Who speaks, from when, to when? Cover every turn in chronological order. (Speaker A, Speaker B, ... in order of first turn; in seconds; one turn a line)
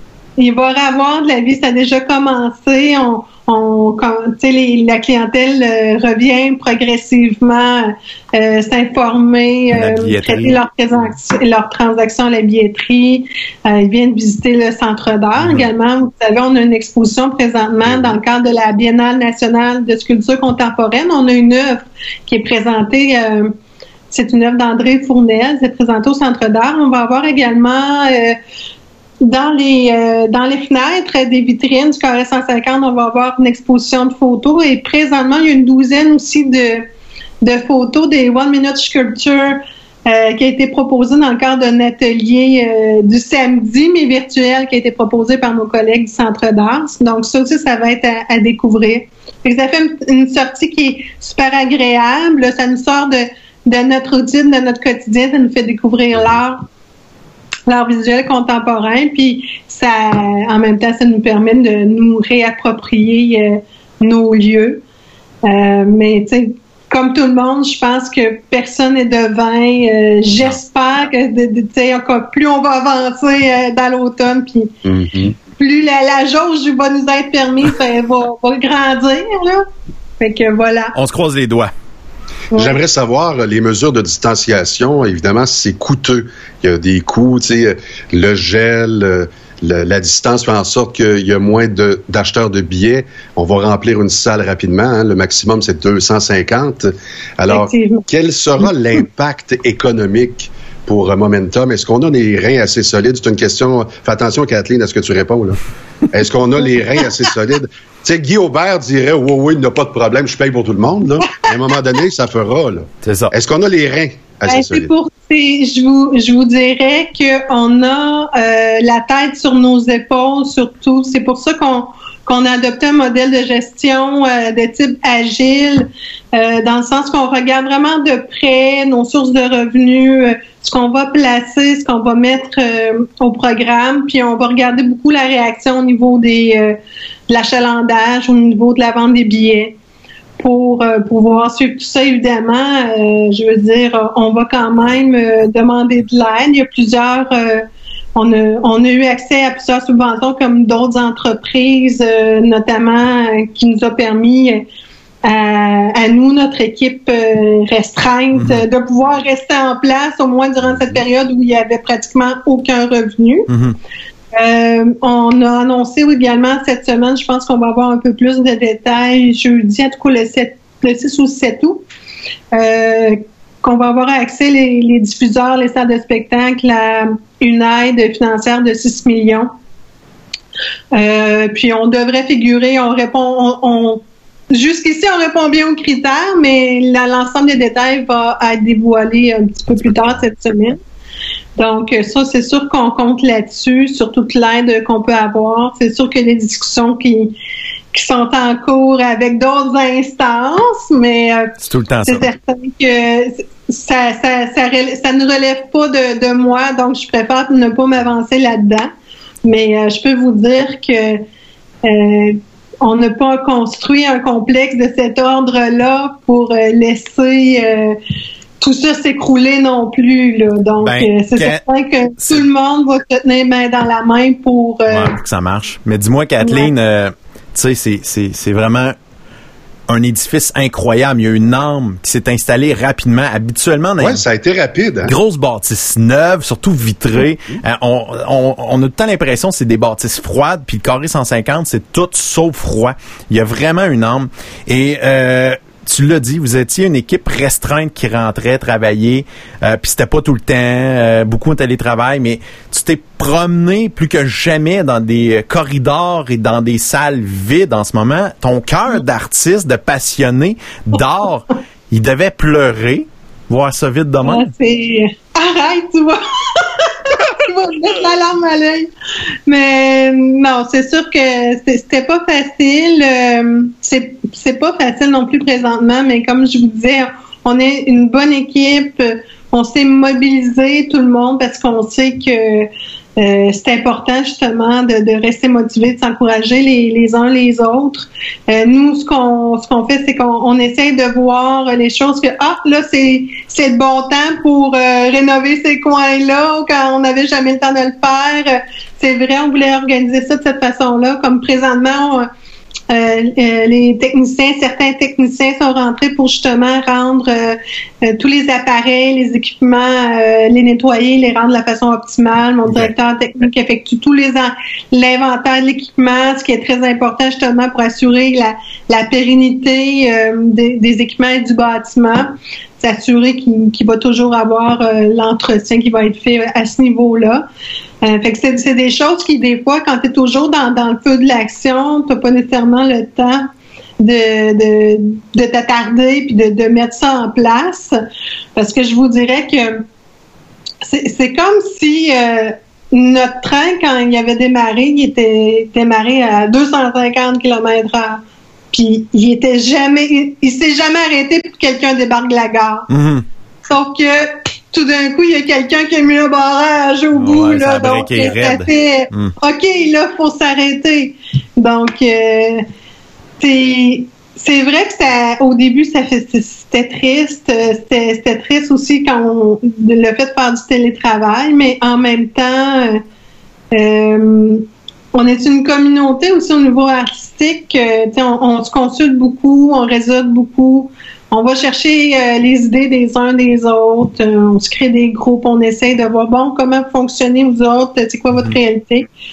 Speaker A: 0.4-23.5
Speaker B: 9.7-10.6
Speaker C: 17.9-18.1
Speaker A: 24.1-28.4
Speaker A: 29.2-36.9
Speaker A: 37.4-56.6
Speaker A: 57.7-64.8
Speaker A: 65.5-74.7
Speaker C: 74.8-75.4
Speaker A: 75.6-79.7
Speaker A: 80.2-81.0
Speaker B: 81.0-81.7
Speaker A: 82.5-82.8
Speaker C: 82.5-105.6
Speaker A: 97.5-98.0
Speaker C: 106.1-114.9
Speaker B: 113.0-113.3
Speaker A: 114.5-136.8
Speaker A: 137.3-139.8
Speaker A: 140.4-154.7
Speaker A: 155.2-163.5
Speaker B: 158.3-158.6
Speaker B: 163.5-163.8
Speaker A: 164.4-171.8
Speaker A: 172.5-179.5
Speaker A: 180.9-190.8
Speaker A: 191.6-197.4
Speaker A: 197.9-201.5
Speaker B: 201.6-202.3
Speaker A: 202.1-208.9
Speaker A: 209.4-211.2
Speaker A: 211.8-218.0
Speaker A: 218.6-225.2
Speaker B: 220.8-221.6
Speaker B: 224.9-228.9
Speaker A: 226.4-226.7
Speaker B: 229.9-234.2
Speaker C: 234.0-235.1
Speaker B: 235.1-264.5
Speaker A: 264.2-268.9
Speaker A: 269.5-302.3
Speaker A: 302.9-327.5
Speaker A: 328.0-333.5
Speaker A: 334.0-338.0
Speaker A: 338.6-339.9
Speaker A: 340.8-348.2
Speaker A: 348.7-352.9
Speaker B: 352.9-353.2
Speaker A: 353.7-362.6
Speaker B: 357.2-359.3
Speaker A: 363.4-373.0
Speaker A: 373.7-389.1